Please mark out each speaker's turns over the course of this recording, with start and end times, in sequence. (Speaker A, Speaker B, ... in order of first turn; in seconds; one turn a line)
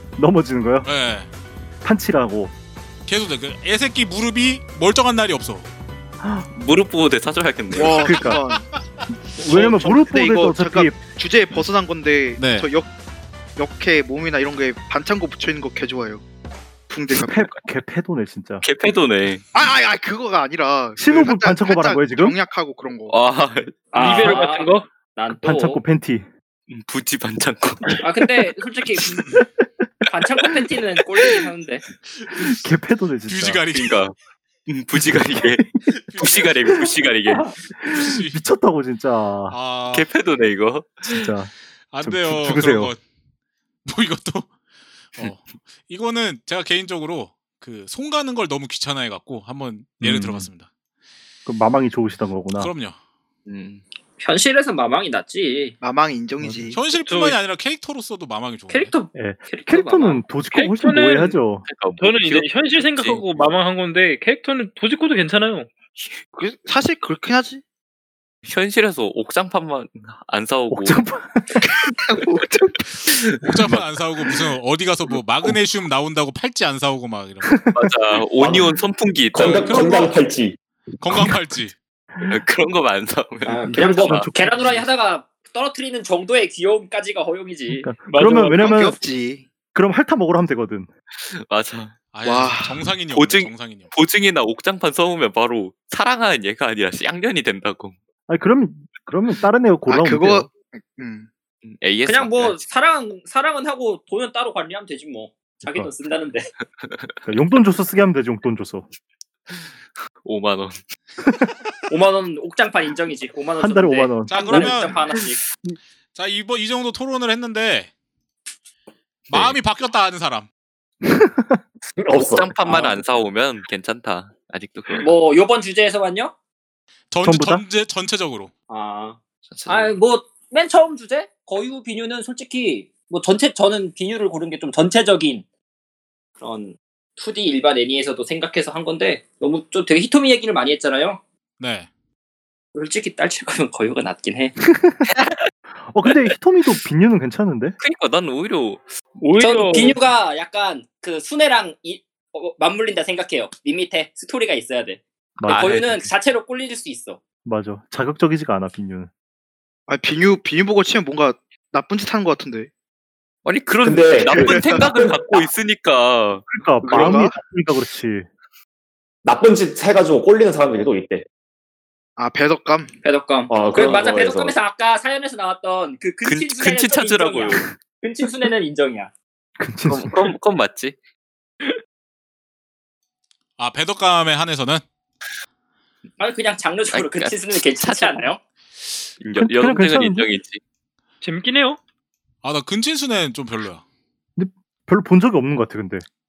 Speaker A: 0.2-0.9
Speaker B: 0.8-1.3
Speaker A: 1.8-2.5
Speaker B: 3.1-5.7
Speaker C: 6.5-8.2
Speaker D: 7.7-8.7
Speaker A: 8.0-8.4
Speaker A: 9.2-11.0
Speaker D: 9.5-12.9
Speaker B: 12.4-12.7
Speaker D: 13.6-16.2
Speaker D: 16.9-17.7
Speaker A: 17.1-18.6
Speaker C: 18.6-19.4
Speaker D: 19.5-23.1
Speaker A: 21.0-22.4
Speaker C: 23.1-24.3
Speaker E: 23.9-24.9
Speaker F: 23.9-25.8
Speaker A: 25.3-26.3
Speaker C: 26.7-28.1
Speaker F: 28.0-29.2
Speaker F: 30.1-31.8
Speaker A: 32.4-33.6
Speaker B: 33.3-34.0
Speaker C: 33.7-34.1
Speaker C: 34.7-35.7
Speaker A: 35.1-35.6
Speaker B: 36.0-36.7
Speaker C: 36.2-37.5
Speaker A: 37.8-39.6
Speaker B: 37.9-38.4
Speaker B: 39.5-40.1
Speaker C: 39.9-41.3
Speaker A: 41.0-42.9
Speaker B: 41.9-43.0
Speaker B: 43.9-44.5
Speaker B: 45.2-50.7
Speaker A: 50.0-50.5
Speaker A: 51.5-52.7
Speaker B: 52.5-53.0
Speaker C: 53.5-53.8
Speaker F: 54.2-55.8
Speaker D: 55.8-56.8
Speaker A: 56.4-56.7
Speaker B: 56.7-58.9
Speaker E: 57.1-57.4
Speaker F: 58.7-60.2
Speaker A: 59.1-61.7
Speaker E: 60.5-61.4
Speaker C: 61.6-63.4
Speaker E: 62.0-65.7
Speaker D: 66.3-67.6
Speaker C: 68.5-71.1
Speaker A: 70.7-71.5
Speaker D: 71.6-72.9
Speaker C: 73.1-73.4
Speaker B: 73.4-77.5
Speaker A: 77.5-78.0
Speaker C: 77.7-79.9
Speaker G: 78.4-78.7
Speaker G: 79.3-80.6
Speaker B: 79.4-80.1
Speaker B: 81.0-81.8
Speaker A: 81.1-81.6
Speaker C: 82.3-84.3
Speaker F: 83.5-87.9
Speaker A: 83.7-84.9
Speaker A: 87.7-89.0
Speaker E: 88.1-88.5
Speaker D: 88.2-89.5
Speaker A: 89.7-90.9
Speaker C: 91.2-92.1
Speaker B: 92.1-93.9
Speaker D: 92.2-92.9
Speaker C: 93.1-98.0
Speaker A: 98.3-100.5
Speaker D: 99.9-101.3
Speaker C: 101.6-102.6
Speaker F: 102.0-106.5
Speaker A: 105.6-105.9
Speaker C: 106.8-107.1
Speaker A: 107.3-108.9
Speaker C: 110.2-110.8
Speaker F: 111.9-115.4
Speaker A: 113.6-115.8
Speaker B: 114.3-115.0
Speaker B: 116.2-117.9
Speaker C: 119.3-119.5
Speaker B: 119.3-120.5
Speaker A: 121.0-121.6
Speaker G: 122.0-122.9
Speaker C: 122.2-125.1
Speaker F: 125.0-126.3
Speaker B: 127.1-128.5
Speaker A: 127.2-127.6
Speaker F: 128.7-135.4
Speaker C: 129.5-129.9
Speaker F: 136.4-141.2
Speaker B: 141.6-141.9
Speaker F: 142.8-144.6
Speaker A: 144.7-145.1
Speaker A: 145.9-147.8
Speaker C: 147.8-149.0
Speaker E: 149.2-150.0
Speaker F: 149.4-157.2
Speaker A: 155.4-155.8
Speaker C: 155.4-156.1
Speaker A: 157.4-159.1
Speaker D: 159.9-162.7
Speaker C: 163.4-166.5
Speaker G: 163.8-165.5
Speaker D: 164.2-164.9
Speaker A: 166.5-168.3
Speaker D: 166.9-167.4
Speaker G: 166.9-167.2
Speaker G: 169.2-171.3
Speaker D: 172.2-172.9
Speaker F: 173.0-179.1
Speaker G: 173.5-174.6
Speaker C: 176.2-177.7
Speaker A: 179.6-180.3
Speaker C: 179.9-181.0
Speaker B: 183.6-184.8
Speaker F: 186.2-188.4
Speaker C: 186.9-188.3
Speaker C: 189.2-190.6
Speaker A: 189.4-190.3
Speaker E: 191.2-191.8
Speaker B: 192.4-193.8
Speaker A: 194.4-196.1